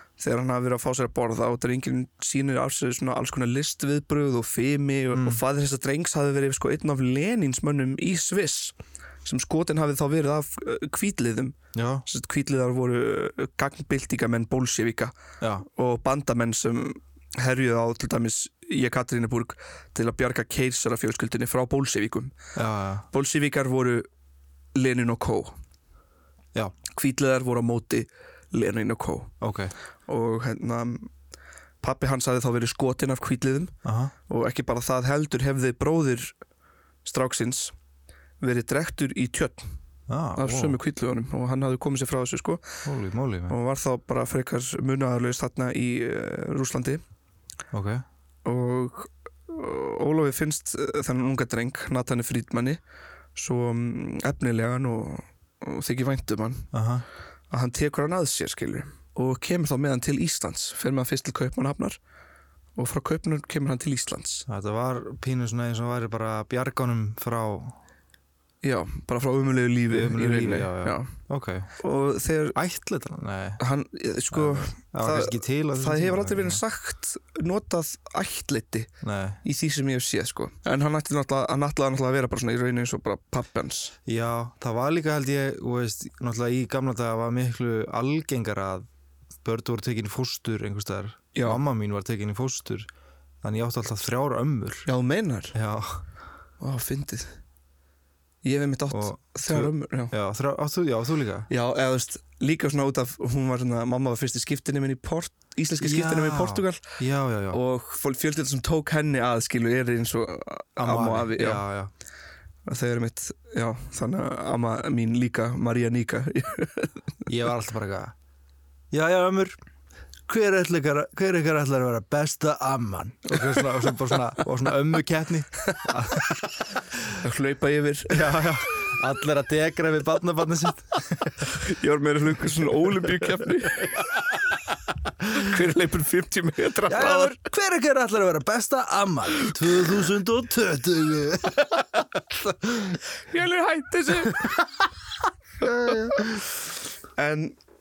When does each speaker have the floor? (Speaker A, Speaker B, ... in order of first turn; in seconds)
Speaker A: 0.2-22.4, 23.1-24.1, 24.8-25.6, 26.9-29.3, 30.1-31.1, 31.8-33.7, 34.3-36.3, 37.0-37.7, 38.4-39.7, 40.4-42.6, 43.5-47.0, 48.4-52.8, 53.3-56.7, 57.5-62.0, 62.8-64.5, 68.6-71.1, 71.8-72.6, 73.6-78.9, 79.4-83.9, 91.3-91.6, 94.9-95.6, 96.6-97.4, 98.4-100.1, 101.5-106.8, 107.5-111.6, 112.7-116.9, 123.3-124.1, 127.2-128.7, 131.4-134.2, 135.3-137.4, 143.3-144.7, 147.2-147.6
Speaker B: 5.1-5.4, 11.7-12.0, 15.4-15.7, 22.6-23.1, 29.4-29.7, 33.8-34.1, 40.1-40.8, 42.8-43.6, 47.7-48.0, 56.7-57.0, 64.5-67.8, 69.9-71.7, 72.5-73.6, 74.3-76.6, 79.0-79.4, 84.1-88.9, 89.4-92.9, 93.4-94.9, 95.5-96.0, 98.9-101.5, 105.8-107.6, 110.8-111.9, 117.3-118.1, 118.9-119.6, 120.3-127.1, 128.1-131.5, 136.9-143.0, 145.6-146.5